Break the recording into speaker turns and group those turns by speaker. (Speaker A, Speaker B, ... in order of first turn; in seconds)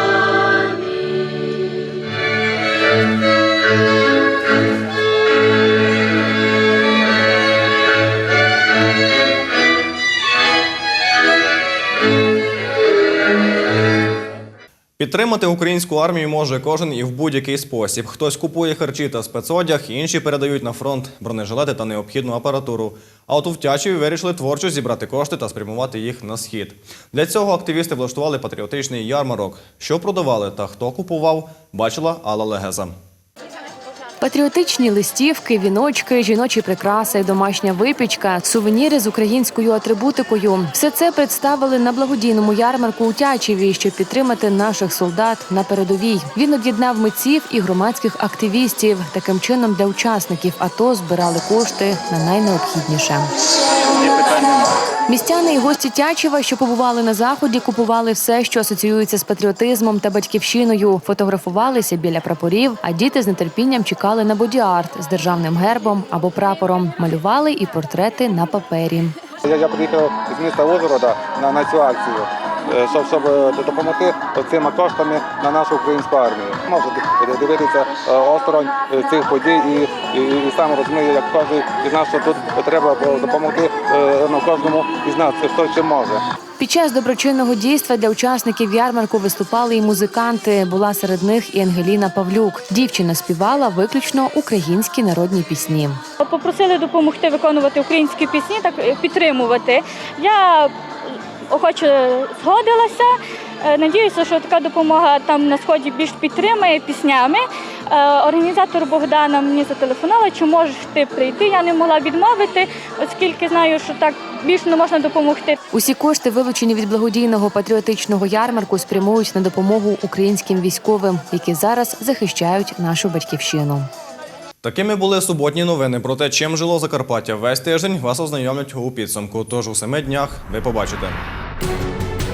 Speaker A: 15.0-32.9, 124.6-131.2
Speaker B: 34.2-53.3, 55.1-69.1, 86.6-96.0, 115.7-123.9
Speaker C: 69.4-72.2, 72.9-78.6, 79.3-79.8, 80.4-81.2, 84.3-85.9
Speaker D: 96.2-115.6